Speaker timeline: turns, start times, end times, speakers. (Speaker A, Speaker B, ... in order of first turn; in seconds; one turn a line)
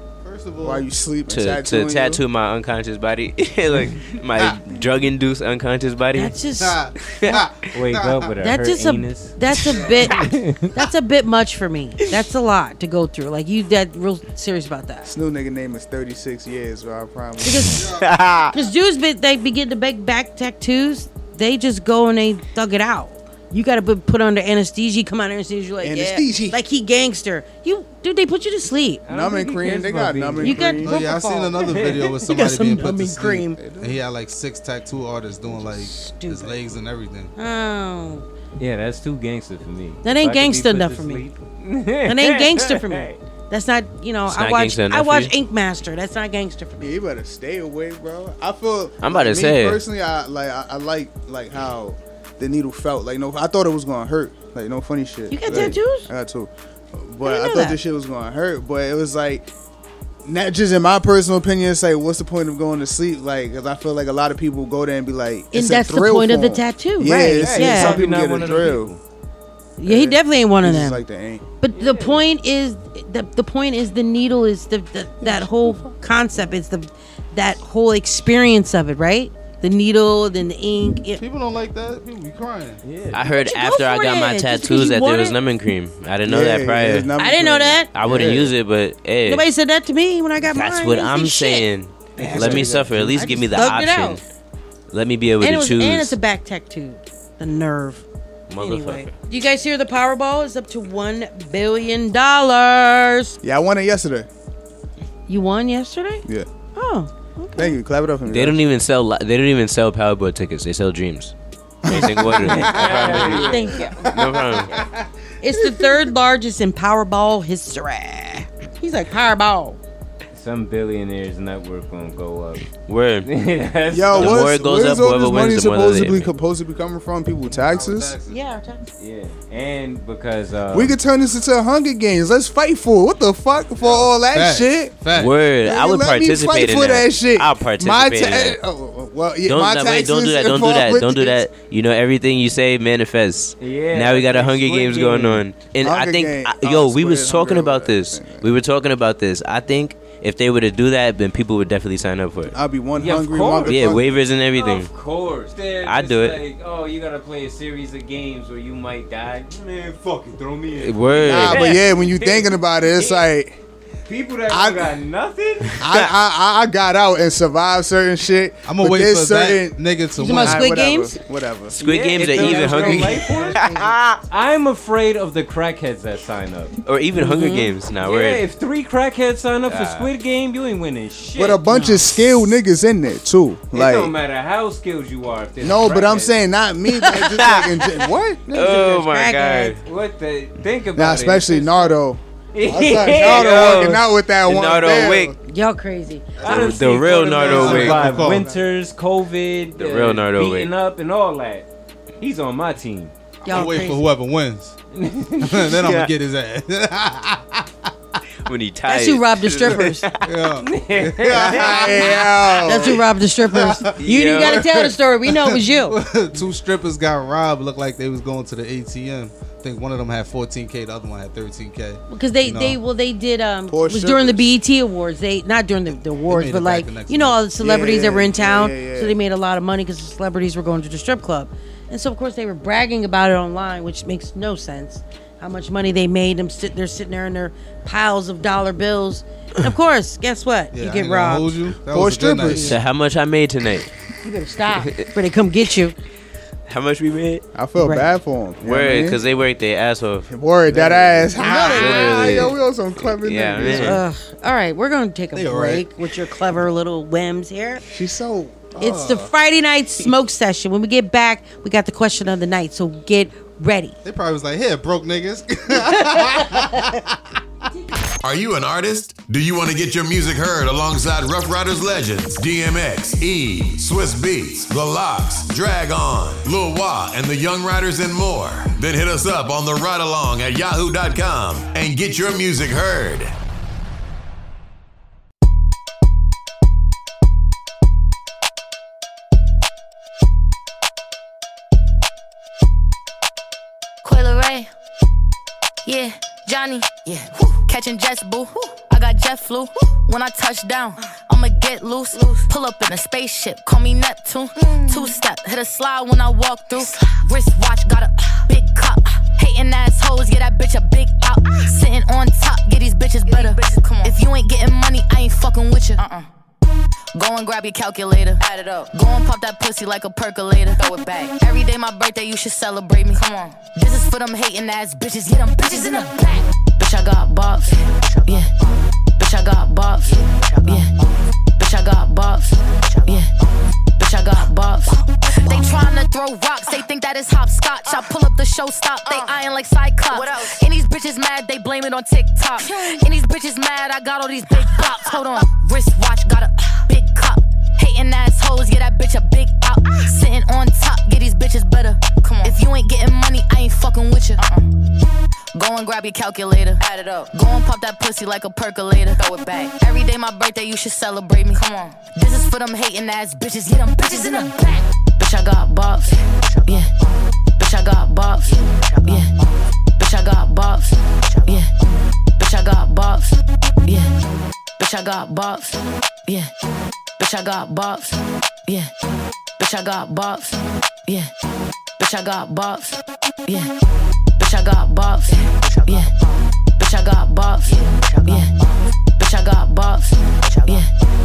Speaker A: 0.2-0.9
Speaker B: 0.6-2.2
Speaker C: 1.3-6.3
Speaker D: 6.2-6.8
Speaker A: 6.6-8.3
Speaker C: 7.1-7.4
Speaker E: 7.7-9.4
Speaker D: 8.4-10.2
Speaker A: 9.7-10.1
Speaker E: 10.1-10.7
Speaker D: 10.8-15.1
Speaker B: 15.0-17.9
Speaker D: 17.4-17.8
Speaker A: 17.8-18.4
Speaker D: 18.5-29.0
Speaker B: 25.8-26.6
Speaker E: 29.1-30.6
Speaker B: 29.1-30.9
Speaker D: 30.4-33.6
Speaker A: 30.8-37.3
Speaker E: 31.6-32.1
Speaker B: 33.6-34.0
Speaker D: 35.5-36.6
Speaker D: 37.4-38.2
Speaker E: 38.6-43.2
Speaker D: 40.0-41.2
Speaker D: 42.1-46.9
Speaker C: 44.3-45.3
Speaker B: 46.8-59.5
Speaker C: 49.0-49.8
Speaker D: 55.3-56.1
Speaker D: 57.2-57.8
Speaker B: 60.2-68.9
Speaker D: 65.5-68.0
Speaker E: 67.4-69.0
Speaker D: 69.8-71.0
Speaker B: 69.8-71.4
Speaker D: 71.6-81.2
Speaker E: 71.7-72.2
Speaker B: 75.2-75.9
Speaker A: 81.2-82.8
Speaker E: 82.8-83.2
Speaker C: 83.1-87.1
Speaker D: 83.3-85.4
Speaker B: 86.2-88.5
Speaker D: 87.2-87.9
Speaker C: 87.9-89.5
Speaker D: 89.3-94.2
Speaker C: 90.5-94.2
Speaker B: 92.2-93.7
Speaker C: 94.9-96.2
Speaker D: 95.4-98.0
Speaker C: 98.5-99.1
Speaker D: 98.6-103.4
Speaker B: 103.4-104.3
Speaker D: 105.3-107.8
Speaker B: 107.6-108.6
Speaker C: 108.3-111.3
Speaker B: 111.9-113.6
Speaker C: 111.9-113.5
Speaker E: 112.4-113.9
Speaker D: 113.3-114.0
Speaker A: 114.0-114.8
Speaker C: 114.1-114.8
Speaker D: 115.4-119.8
Speaker E: 120.3-122.7
Speaker C: 122.9-123.3
Speaker E: 123.2-124.5
Speaker B: 123.9-128.1
Speaker C: 124.2-126.3
Speaker A: 127.5-128.4
Speaker D: 128.3-128.8
Speaker E: 129.0-131.0
Speaker B: 130.7-134.9
Speaker A: 133.8-135.3
Speaker C: 135.2-138.6
Speaker B: 135.6-141.4
Speaker C: 139.5-152.6
Speaker E: 143.6-145.4
Speaker B: 145.8-148.5
Speaker B: 152.5-154.1
Speaker E: 153.0-154.0
Speaker C: 153.7-154.9
Speaker E: 154.5-163.3
Speaker C: 155.8-156.4
Speaker C: 160.8-161.7
Speaker B: 161.2-163.6
Speaker E: 164.1-165.8
Speaker B: 164.5-164.9
Speaker B: 165.8-169.8
Speaker A: 168.7-170.7
Speaker D: 170.2-171.2
Speaker B: 170.3-171.8
Speaker C: 171.8-174.2
Speaker E: 171.8-173.6
Speaker D: 172.3-173.9
Speaker E: 174.3-176.7
Speaker C: 176.8-178.4
Speaker D: 177.2-177.7
Speaker E: 178.0-182.1
Speaker C: 179.7-180.1
Speaker B: 181.4-184.1
Speaker E: 183.7-186.4
Speaker B: 185.6-188.9
Speaker C: 187.0-187.9
Speaker C: 188.5-189.8
Speaker D: 188.6-189.8
Speaker E: 189.8-192.0
Speaker B: 191.0-195.3
Speaker E: 192.5-193.9
Speaker C: 193.2-195.3
Speaker D: 195.5-196.9
Speaker A: 196.4-198.5
Speaker E: 196.4-201.7
Speaker C: 196.5-198.2
Speaker B: 198.1-198.6
Speaker C: 199.8-200.7
Speaker E: 202.2-203.1
Speaker A: 203.4-204.8
Speaker D: 203.4-204.0
Speaker E: 204.9-205.7
Speaker A: 205.4-207.7
Speaker C: 208.5-210.2
Speaker D: 208.9-210.1
Speaker A: 210.2-212.2
Speaker E: 210.6-212.2
Speaker B: 211.5-213.0
Speaker D: 212.7-216.0
Speaker A: 212.8-222.8
Speaker C: 214.0-214.9
Speaker D: 222.1-241.6
Speaker B: 223.7-224.5
Speaker A: 226.3-227.4
Speaker B: 227.6-229.2
Speaker A: 240.7-242.7
Speaker B: 241.9-242.8
Speaker D: 242.5-242.8
Speaker C: 242.6-243.9
Speaker D: 244.2-245.9
Speaker C: 244.8-245.1
Speaker C: 246.7-247.4
Speaker B: 247.6-249.2
Speaker D: 247.8-248.1
Speaker C: 248.6-254.0
Speaker B: 250.3-254.0
Speaker A: 251.4-251.9
Speaker D: 251.5-252.1
Speaker D: 253.7-257.8
Speaker A: 255.3-255.9
Speaker B: 257.9-259.1
Speaker D: 258.8-264.0
Speaker A: 258.8-259.3
Speaker A: 264.0-267.0
Speaker F: 268.2-283.3
Speaker G: 294.0-294.7
Speaker G: 295.9-316.3
Speaker G: 317.1-328.5
Speaker G: 329.2-330.9
Speaker G: 331.6-333.3
Speaker G: 334.0-354.7
Speaker G: 355.6-366.9
Speaker G: 367.6-369.3
Speaker G: 370.0-371.7
Speaker G: 372.4-374.1
Speaker G: 374.8-376.5
Speaker G: 377.2-378.9
Speaker G: 379.6-381.3
Speaker G: 382.0-383.7
Speaker G: 384.4-386.1
Speaker G: 386.8-388.5
Speaker G: 389.2-390.9